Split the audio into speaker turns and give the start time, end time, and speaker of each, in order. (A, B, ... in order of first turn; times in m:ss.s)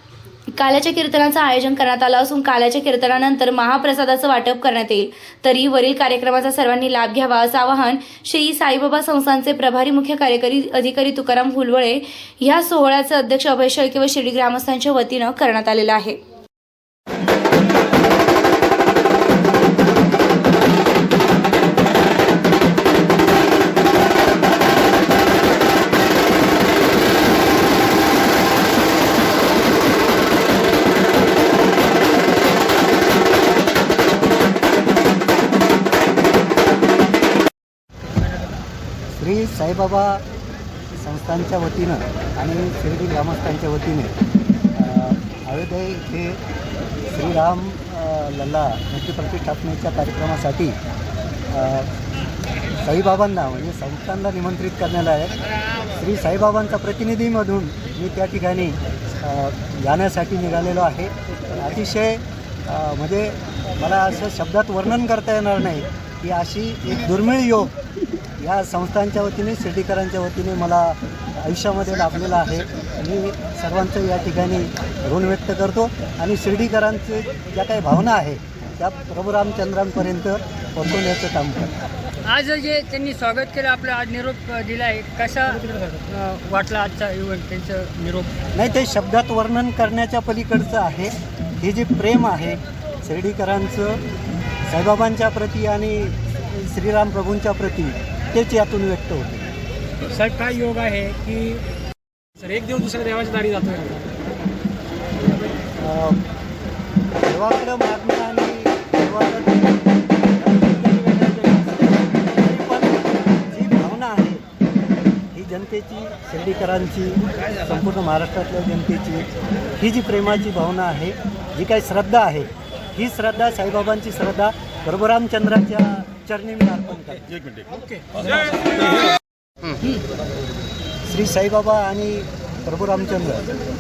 0:00.6-0:16.2 A
0:39.2-0:40.2 B
0:40.9-0:44.1 B
0:44.7-0:46.4 B
0:47.1-0:50.8 B
0:51.5-0:51.9 B
0:52.8-0:55.4 B
0:55.9-1:07.7 B
1:08.4-1:21.8 B
1:22.3-1:28.3 C
1:28.5-1:34.0 B
1:34.7-1:39.4 B
1:40.0-1:41.7 D
1:42.4-1:44.1 D
1:45.8-1:46.2 B
1:47.2-1:54.4 B
1:55.3-2:07.3 B
2:07.7-2:08.9 D
2:11.1-2:13.4 B